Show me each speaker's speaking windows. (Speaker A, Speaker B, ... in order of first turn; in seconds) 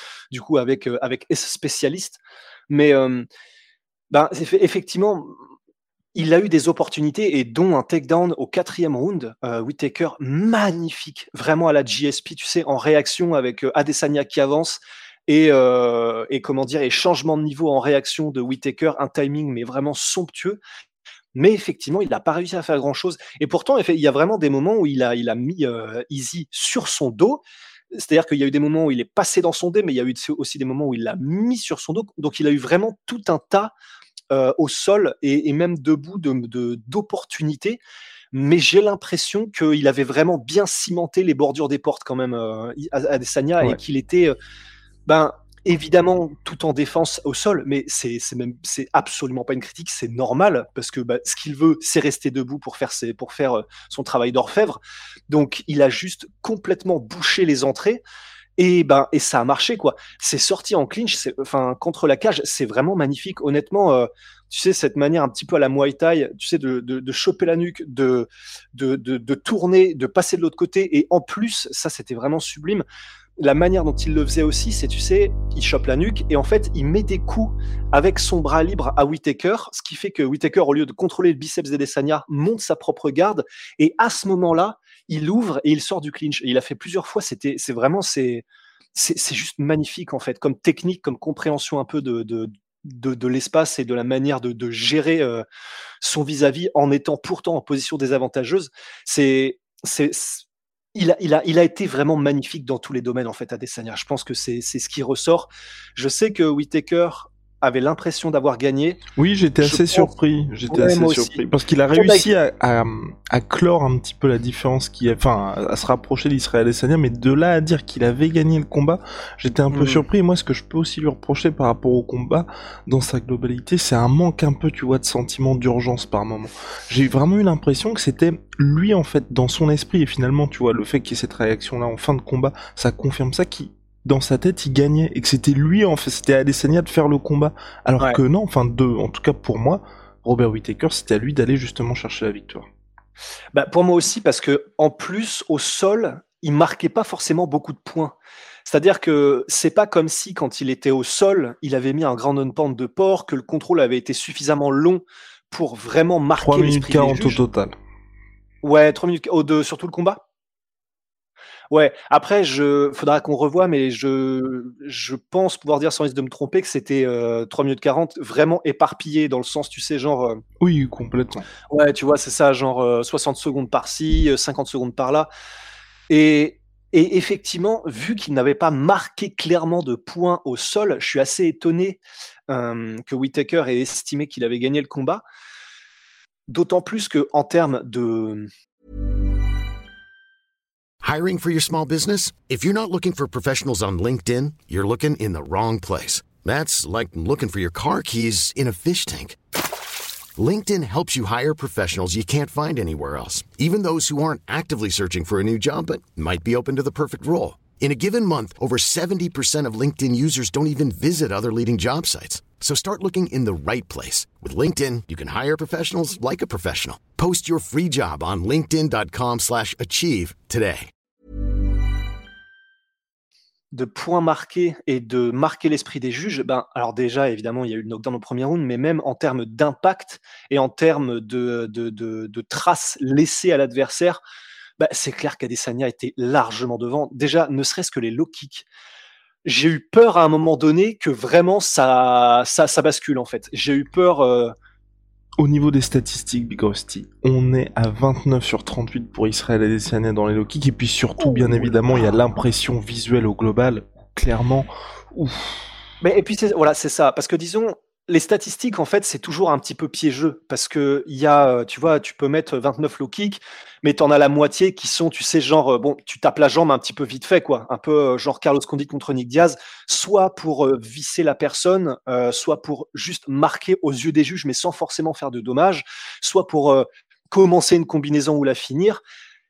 Speaker A: 0.3-3.3, 4.1-5.4, 6.1-20.6, 21.3-33.7, 34.3-37.8, 38.3-44.3, 45.0-58.0, 58.6-72.8, 73.4-95.4, 96.0-109.0, 109.6-110.1, 110.7-112.3, 119.7-120.0, 143.5-157.4, 158.6-160.2, 161.7-170.4, 171.7-175.3, 176.1-185.2, 186.5-188.5, 223.7-234.2, 234.8-238.7, 239.4-244.5, 251.2-252.2, 256.0-279.0
Speaker B: 109.2-142.7, 156.4-157.8, 170.6-171.5, 245.4-255.5
Speaker C: 191.0-199.4, 200.4-220.9